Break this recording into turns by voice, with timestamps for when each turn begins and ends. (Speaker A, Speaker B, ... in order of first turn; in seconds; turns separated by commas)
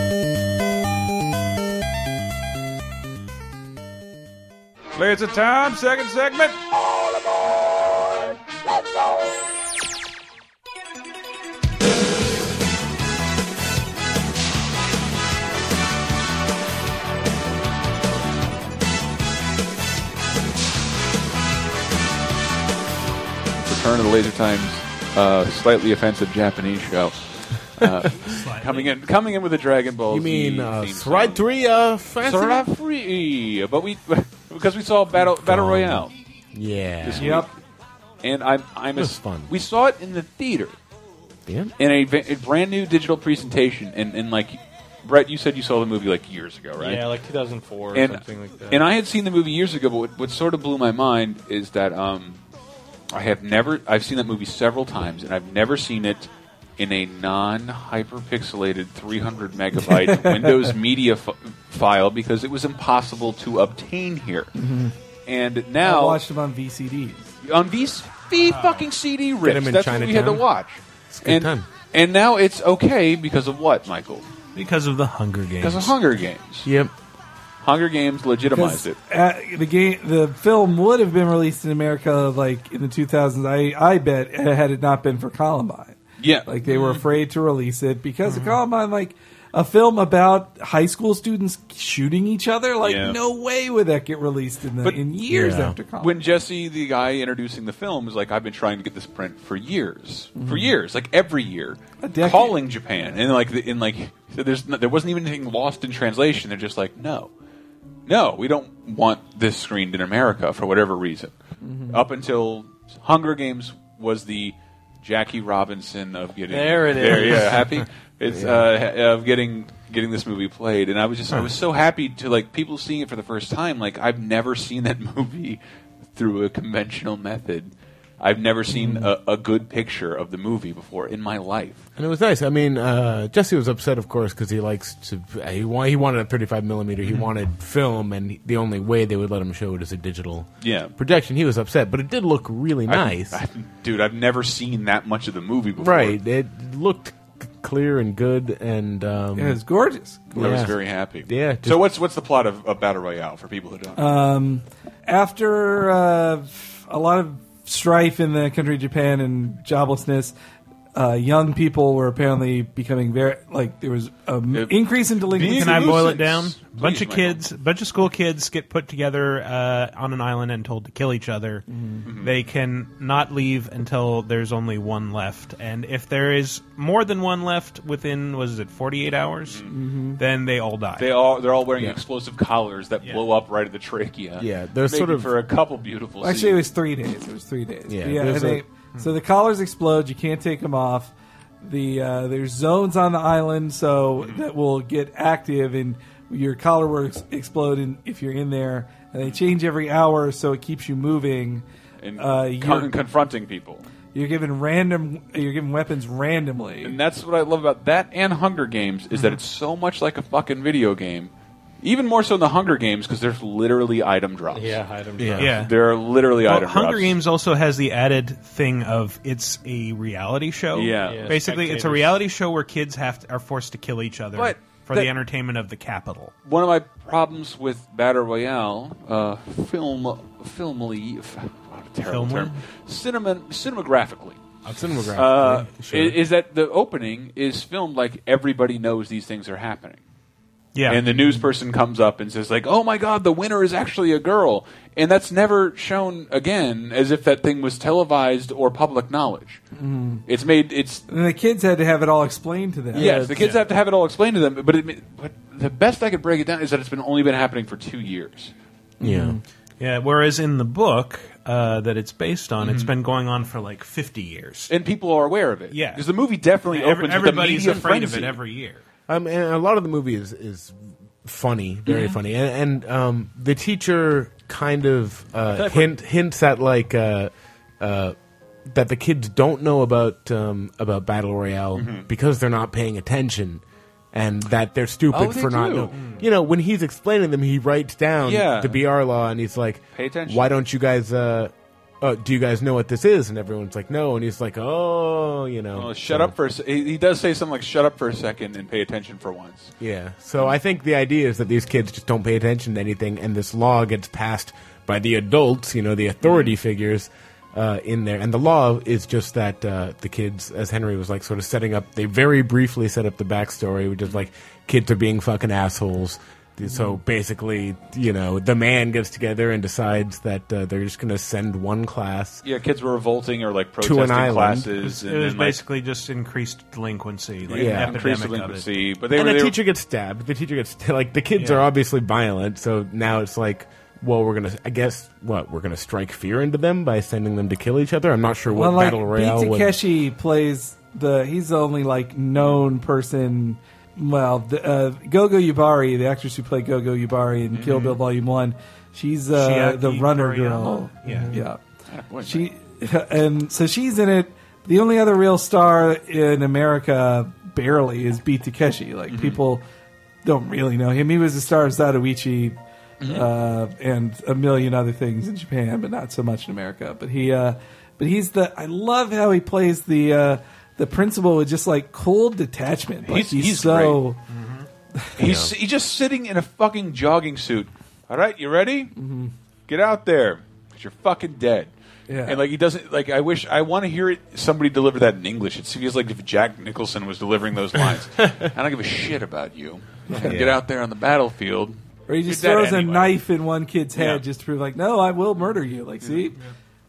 Speaker A: 4.9-6.6, Speaker A: 23.6-31.4, Speaker B: 28.2-28.9, Speaker C: 30.1-32.7, Speaker A: 32.2-36.1, Speaker C: 35.2-37.4, Speaker A: 37.0-37.5, Speaker D: 37.1-37.5, Speaker A: 38.2-40.8, Speaker C: 39.0-39.5, Speaker C: 41.5-41.7, Speaker A: 41.8-47.1, Speaker E: 46.8-48.9, Speaker A: 47.9-52.4, Speaker A: 53.1-64.5, Speaker D: 59.9-60.7, Speaker D: 64.5-64.9, Speaker A: 65.2-66.2, Speaker D: 65.8-67.3, Speaker A: 67.4-74.3, Speaker B: 68.4-68.9, Speaker C: 69.4-70.5, Speaker C: 71.1-71.7, Speaker B: 74.5-75.9, Speaker A: 75.6-76.7, Speaker C: 76.6-76.9, Speaker A: 77.6-79.0, Speaker D: 78.5-96.2, Speaker A: 86.2-87.0, Speaker B: 88.2-88.6, Speaker A: 92.8-93.2, Speaker C: 95.3-95.8, Speaker A: 96.0-107.3, Speaker D: 100.4-100.7, Speaker D: 102.0-102.6, Speaker A: 108.0-111.3, Speaker D: 111.6-112.0, Speaker A: 111.9-125.6, Speaker E: 116.5-117.6, Speaker C: 118.3-118.7, Speaker A: 126.1-131.9, Speaker C: 131.9-143.4, Speaker A: 140.6-140.9, Speaker A: 142.9-146.2, Speaker C: 145.8-149.6, Speaker D: 149.3-150.4, Speaker C: 150.3-151.8, Speaker A: 150.3-154.2, Speaker D: 154.0-160.3, Speaker D: 160.9-166.1, Speaker A: 164.5-167.4, Speaker B: 165.4-171.6, Speaker D: 171.7-172.0, Speaker A: 172.0-172.3, Speaker B: 172.2-179.7, Speaker D: 179.7-180.2, Speaker B: 180.2-181.1, Speaker A: 181.0-186.6, Speaker C: 184.4-185.3, Speaker D: 186.2-201.6, Speaker C: 187.9-188.6, Speaker A: 202.0-203.8, Speaker D: 202.2-202.9, Speaker D: 204.1-207.0, Speaker A: 206.8-211.3, Speaker B: 209.1-209.4, Speaker A: 211.8-214.8, Speaker E: 214.5-215.6, Speaker C: 215.2-215.5, Speaker B: 215.4-215.7, Speaker A: 215.4-217.2, Speaker B: 216.4-226.3, Speaker A: 220.7-221.3, Speaker E: 221.0-222.2, Speaker A: 224.3-225.1, Speaker A: 226.4-234.4, Speaker B: 232.0-232.6, Speaker C: 234.7-236.2, Speaker B: 234.7-235.2, Speaker A: 235.1-240.0, Speaker B: 240.7-241.0, Speaker A: 240.9-249.6, Speaker D: 249.8-250.2, Speaker A: 250.2-251.1, Speaker D: 251.1-253.1, Speaker C: 252.9-253.5, Speaker A: 252.9-258.5, Speaker C: 259.0-259.4, Speaker D: 259.0-259.4, Speaker B: 259.8-264.7, Speaker A: 262.6-262.9, Speaker A: 264.7-268.4, Speaker B: 265.7-266.1, Speaker B: 266.7-268.8, Speaker C: 269.1-296.3, Speaker E: 275.5-275.9, Speaker A: 281.7-282.1, Speaker A: 285.1-286.0, Speaker B: 286.0-286.2, Speaker A: 288.2-288.8, Speaker A: 289.9-290.6, Speaker A: 295.7-299.7, Speaker C: 299.8-322.4, Speaker A: 306.2-306.5, Speaker A: 322.4-325.6, Speaker C: 323.8-324.7, Speaker B: 324.8-328.7, Speaker C: 327.5-328.0, Speaker A: 327.5-329.6, Speaker C: 329.1-339.8, Speaker B: 331.4-331.6, Speaker D: 338.5-351.6, Speaker A: 347.6-347.9, Speaker B: 349.3-351.4, Speaker A: 351.9-352.5, Speaker D: 352.2-359.6, Speaker A: 359.1-359.4, Speaker D: 360.2-362.6, Speaker A: 363.0-363.3, Speaker D: 363.1-374.2, Speaker A: 373.1-374.0, Speaker B: 374.3-374.7, Speaker A: 375.2-378.9, Speaker C: 375.2-375.5, Speaker D: 378.9-379.3, Speaker A: 379.7-381.7, Speaker D: 382.1-382.4, Speaker A: 382.2-393.1, Speaker C: 390.2-390.6, Speaker D: 392.1-396.3, Speaker A: 393.9-394.2